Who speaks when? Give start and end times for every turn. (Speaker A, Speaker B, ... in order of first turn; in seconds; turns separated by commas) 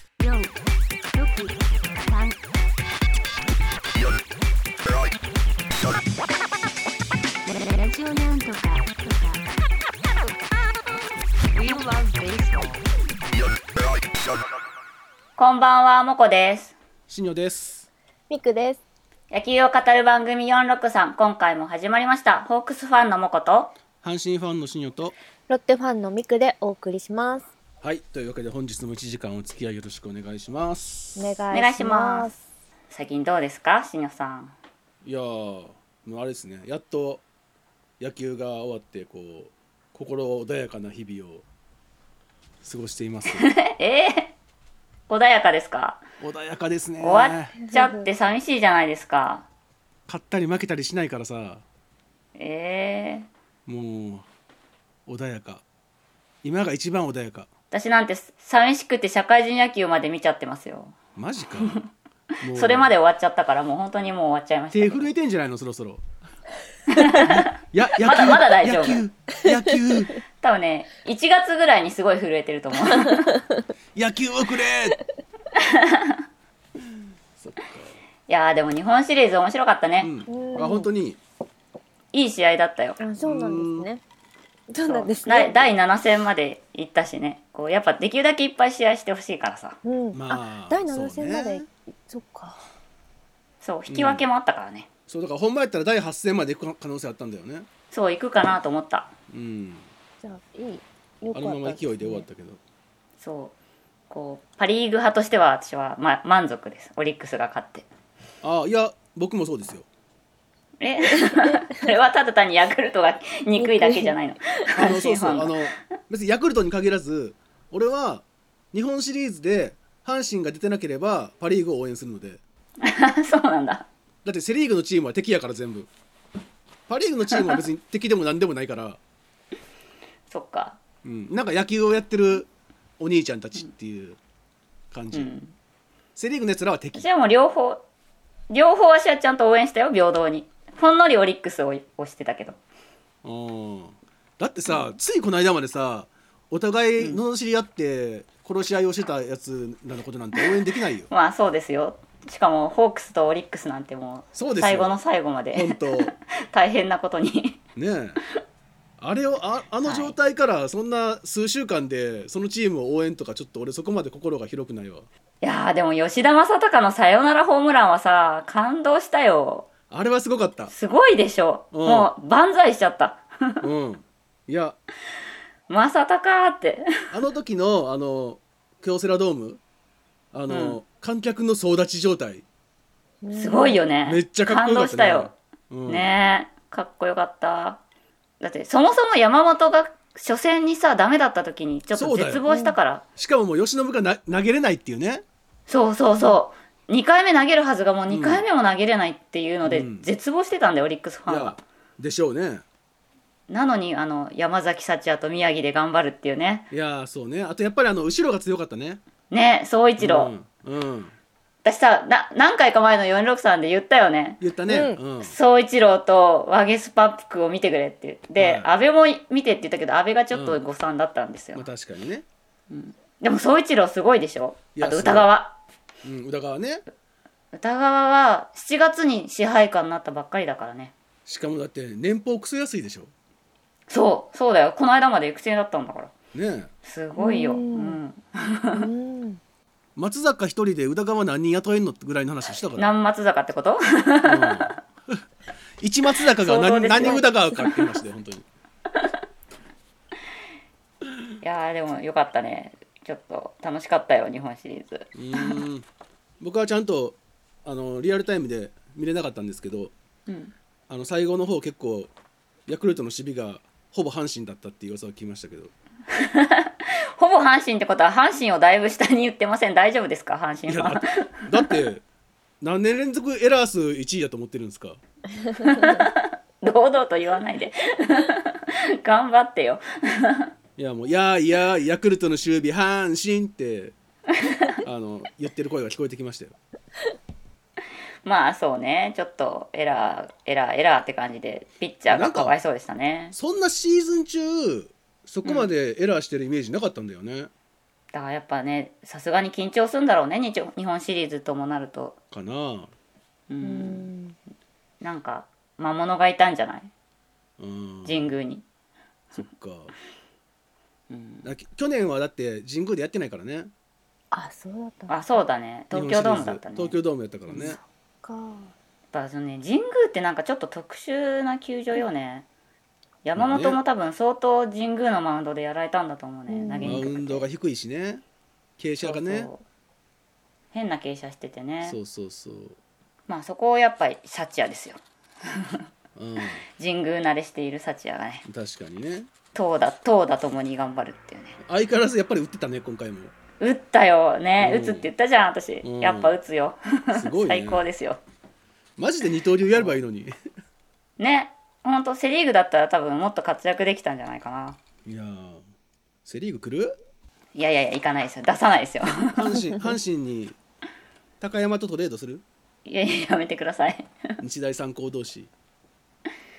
Speaker A: 0.2-0.5, Speaker A: 1.1-2.4, Speaker A: 7.5-9.4, Speaker A: 11.5-12.8, Speaker B: 15.4-16.7, Speaker C: 17.1-17.9, Speaker D: 18.3-18.8, Speaker B: 19.3-23.7, Speaker C: 24.0-25.1, Speaker D: 25.5-27.5, Speaker C: 27.8-31.2, Speaker D: 31.1-32.4, Speaker B: 31.5-32.3, Speaker B: 32.9-34.5, Speaker C: 35.0-37.2, Speaker C: 38.0-41.4, Speaker C: 42.6-43.5, Speaker B: 43.3-44.3, Speaker B: 45.1-46.0, Speaker C: 46.2-47.5, Speaker B: 47.0-49.5, Speaker D: 47.6-48.1, Speaker C: 50.1-51.6, Speaker B: 52.4-53.3, Speaker C: 53.6-54.2, Speaker C: 55.0-55.6, Speaker C: 56.4-57.5, Speaker B: 57.7-60.9, Speaker C: 61.1-61.9, Speaker C: 62.4-62.9, Speaker B: 62.5-65.1, Speaker C: 64.7-66.0, Speaker B: 66.9-69.0, Speaker C: 67.2-70.2, Speaker B: 70.4-73.4, Speaker C: 73.9-75.0, Speaker B: 75.5-76.2, Speaker C: 77.4-77.9, Speaker B: 78.3-80.1, Speaker C: 80.0-81.2, Speaker D: 80.3-80.9, Speaker B: 82.1-83.0, Speaker D: 83.0-84.0, Speaker C: 83.2-83.9, Speaker D: 84.7-85.7, Speaker B: 84.8-89.8, Speaker D: 89.8-92.6, Speaker C: 90.1-91.7, Speaker B: 93.6-94.9, Speaker C: 93.9-94.2, Speaker C: 95.1-97.7, Speaker B: 97.9-99.1, Speaker C: 99.3-99.9, Speaker D: 100.2-102.2, Speaker C: 101.3-102.6, Speaker B: 103.2-103.5, Speaker B: 104.1-107.8, Speaker C: 108.4-109.8, Speaker B: 110.8-115.7, Speaker D: 113.5-114.1, Speaker C: 114.7-122.4, Speaker B: 122.8-123.9, Speaker C: 124.2-125.9, Speaker C: 126.9-129.0, Speaker B: 130.3-130.8, Speaker C: 131.0-134.2, Speaker C: 134.9-135.3, Speaker B: 135.1-135.5, Speaker C: 136.2-137.0, Speaker B: 136.9-137.8, Speaker B: 138.5-142.6, Speaker C: 143.2-151.1, Speaker B: 151.1-157.6, Speaker C: 154.3-154.9, Speaker C: 155.5-156.1, Speaker C: 157.8-158.2, Speaker C: 159.0-165.1, Speaker B: 159.8-160.1, Speaker B: 165.4-169.7, Speaker C: 169.9-170.7, Speaker B: 170.7-173.6, Speaker C: 171.7-172.1, Speaker C: 173.6-174.8, Speaker B: 175.7-176.9, Speaker C: 177.1-179.6, Speaker C: 180.3-182.4, Speaker B: 180.5-180.8, Speaker D: 183.2-183.8, Speaker B: 183.3-185.3, Speaker C: 184.1-186.1, Speaker B: 185.8-187.8, Speaker B: 188.4-193.0, Speaker C: 191.9-192.4, Speaker D: 192.5-192.7, Speaker C: 193.2-195.2, Speaker B: 195.7-201.6, Speaker C: 198.1-198.4, Speaker C: 199.6-200.1, Speaker C: 201.3-202.6, Speaker B: 203.5-206.7, Speaker C: 206.7-209.0, Speaker B: 209.3-210.3, Speaker C: 210.0-211.1, Speaker B: 211.6-214.4, Speaker C: 214.4-215.3, Speaker D: 214.7-215.0, Speaker B: 215.2-221.7, Speaker C: 218.4-218.7, Speaker C: 220.3-220.6, Speaker C: 221.5-222.2, Speaker B: 222.7-225.6, Speaker C: 224.7-225.3, Speaker C: 226.0-226.8, Speaker B: 227.5-230.9, Speaker C: 231.2-233.1, Speaker B: 233.9-236.1, Speaker C: 236.3-236.7, Speaker B: 236.8-238.8, Speaker D: 237.2-238.0, Speaker D: 238.7-239.4, Speaker C: 239.9-242.9, Speaker B: 242.8-244.7, Speaker C: 244.2-245.2, Speaker C: 245.8-248.4, Speaker B: 246.3-247.8, Speaker B: 251.4-255.6, Speaker C: 255.1-255.8, Speaker C: 256.4-259.9, Speaker B: 260.3-260.5, Speaker C: 260.9-262.1, Speaker C: 262.7-265.7, Speaker B: 266.1-271.7, Speaker C: 270.7-272.0, Speaker C: 272.6-275.0, Speaker B: 275.6-280.5, Speaker D: 275.6-275.9, Speaker C: 280.8-283.9, Speaker B: 284.4-284.8, Speaker C: 284.8-286.6, Speaker B: 288.2-293.3, Speaker C: 292.1-292.5, Speaker C: 293.3-297.5, Speaker B: 295.4-295.7, Speaker B: 298.1-302.1, Speaker C: 302.3-302.9, Speaker B: 303.5-304.1, Speaker D: 303.6-304.4, Speaker B: 305.0-306.9, Speaker C: 307.6-308.3, Speaker B: 308.0-308.6, Speaker C: 309.3-309.9, Speaker B: 311.1-311.5, Speaker C: 311.4-313.7, Speaker D: 314.3-315.1, Speaker B: 315.1-317.0, Speaker C: 315.9-317.8, Speaker B: 317.5-317.8, Speaker D: 318.2-318.7, Speaker B: 319.1-322.4, Speaker B: 323.2-327.4, Speaker C: 323.4-323.8, Speaker D: 326.5-327.0, Speaker C: 326.8-328.2, Speaker C: 328.8-329.5, Speaker B: 329.0-329.6, Speaker B: 330.7-332.0, Speaker C: 331.8-332.8, Speaker B: 333.3-335.8, Speaker C: 336.1-336.6, Speaker B: 336.7-338.4, Speaker C: 338.4-339.3, Speaker B: 339.5-341.6, Speaker C: 341.6-343.3, Speaker B: 343.6-348.2, Speaker C: 344.6-345.1, Speaker C: 345.8-346.3, Speaker C: 347.1-347.8, Speaker C: 349.0-350.3, Speaker B: 351.2-354.8, Speaker C: 355.0-355.6, Speaker C: 356.2-357.0, Speaker B: 357.5-359.5, Speaker C: 359.4-360.6, Speaker C: 361.4-362.4, Speaker B: 362.9-364.1, Speaker C: 364.4-365.5